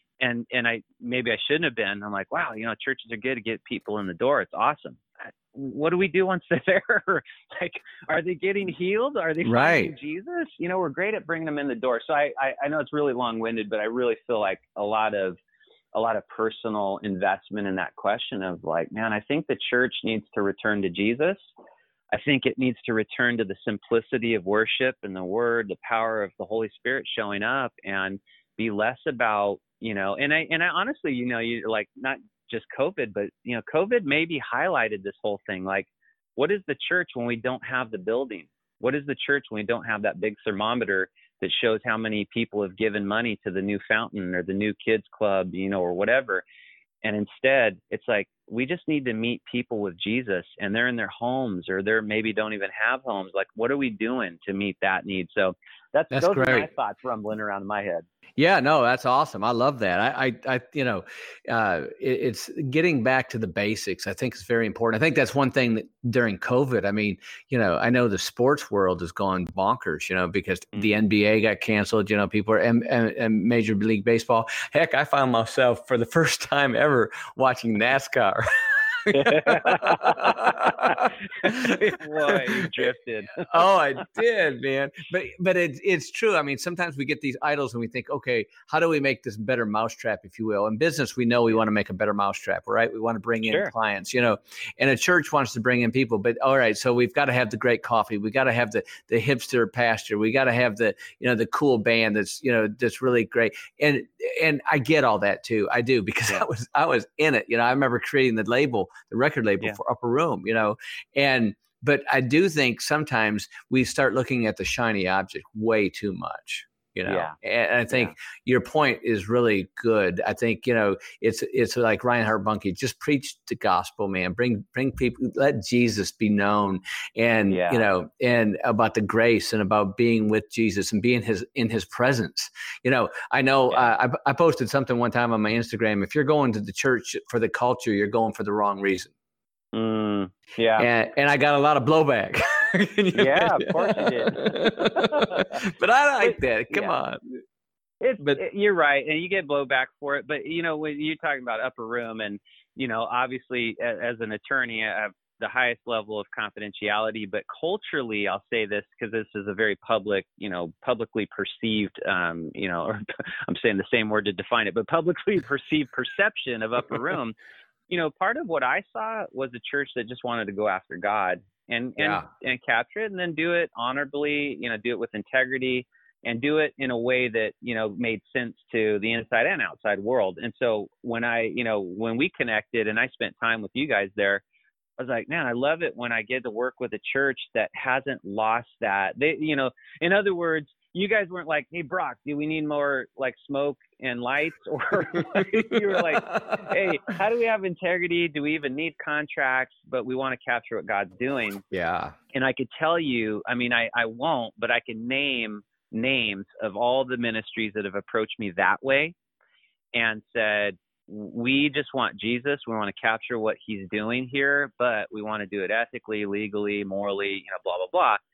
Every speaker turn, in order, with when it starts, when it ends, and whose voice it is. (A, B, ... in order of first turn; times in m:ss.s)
0:00.2-0:15.4 A
0:09.4-0:09.9 B
0:15.9-0:21.4 A
0:22.1-0:46.4 A
0:47.0-0:58.0 A
0:56.1-0:56.7 B
0:58.4-1:22.9 B
1:19.1-1:23.6 A
1:23.4-2:19.1 B
1:33.4-1:33.7 A
1:57.1-1:57.4 A
2:07.5-2:07.8 A
2:19.7-2:20.9 A
2:20.8-2:27.4 B
2:23.1-2:25.6 A
2:26.2-2:27.0 A
2:28.0-2:47.4 A
2:47.9-3:04.4 A
2:52.0-2:52.2 B
3:05.0-3:21.6 A
3:15.3-3:16.7 B
3:21.7-3:22.1 B
3:22.3-3:29.1 A
3:29.9-3:38.2 A